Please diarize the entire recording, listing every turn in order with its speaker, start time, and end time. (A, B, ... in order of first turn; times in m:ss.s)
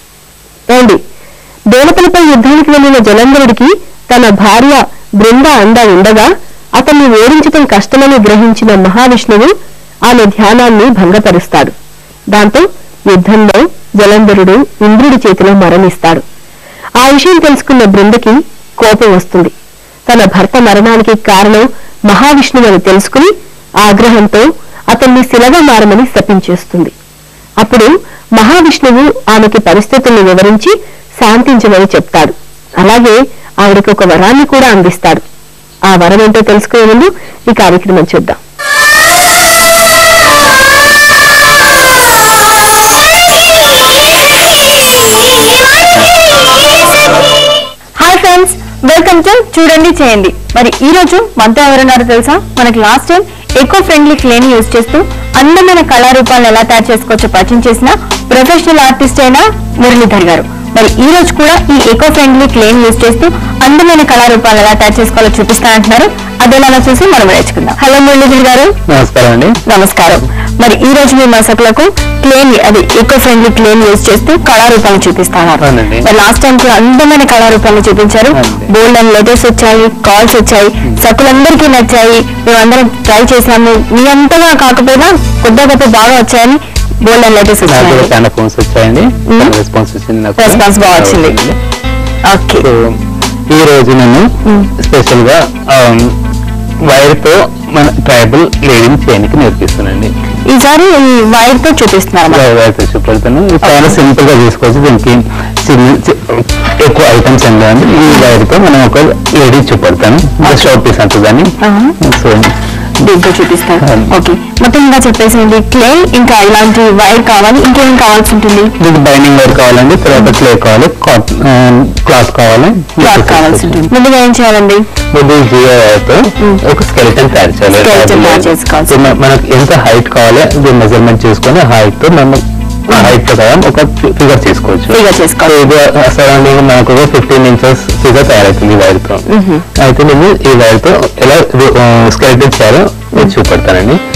0:00.7-0:01.0 A
0:01.7-0:09.5 A
0:10.1-0:11.7 A
0:12.3-0:16.2 A
0:17.0-0:19.5 A
0:20.1-0:23.3 A
0:23.8-0:26.9 A
0:27.6-0:35.2 A
0:35.9-0:38.4 A
0:48.0-1:08.8 B
1:08.9-1:09.6 C
1:09.7-1:28.1 B
1:15.6-1:16.1 C
1:18.3-1:18.7 C
1:27.6-1:31.6 C
1:29.3-1:29.5 B
1:30.4-1:31.4 B
1:32.2-1:32.7 B
1:32.6-1:33.0 C
1:33.5-1:36.2 C
1:34.4-1:34.7 B
1:36.8-1:40.1 C
1:40.5-1:42.5 B
1:42.3-1:52.5 C
1:43.6-1:44.0 B
1:50.4-1:50.8 B
1:51.6-1:52.0 B
1:53.0-1:58.7 B
1:53.8-1:54.1 C
1:58.8-2:03.9 C
2:03.0-2:04.8 B
2:05.1-2:19.2 C
2:07.7-2:09.2 B
2:12.9-2:13.2 B
2:14.9-2:15.7 B
2:19.3-2:19.6 B
2:19.8-2:24.0 C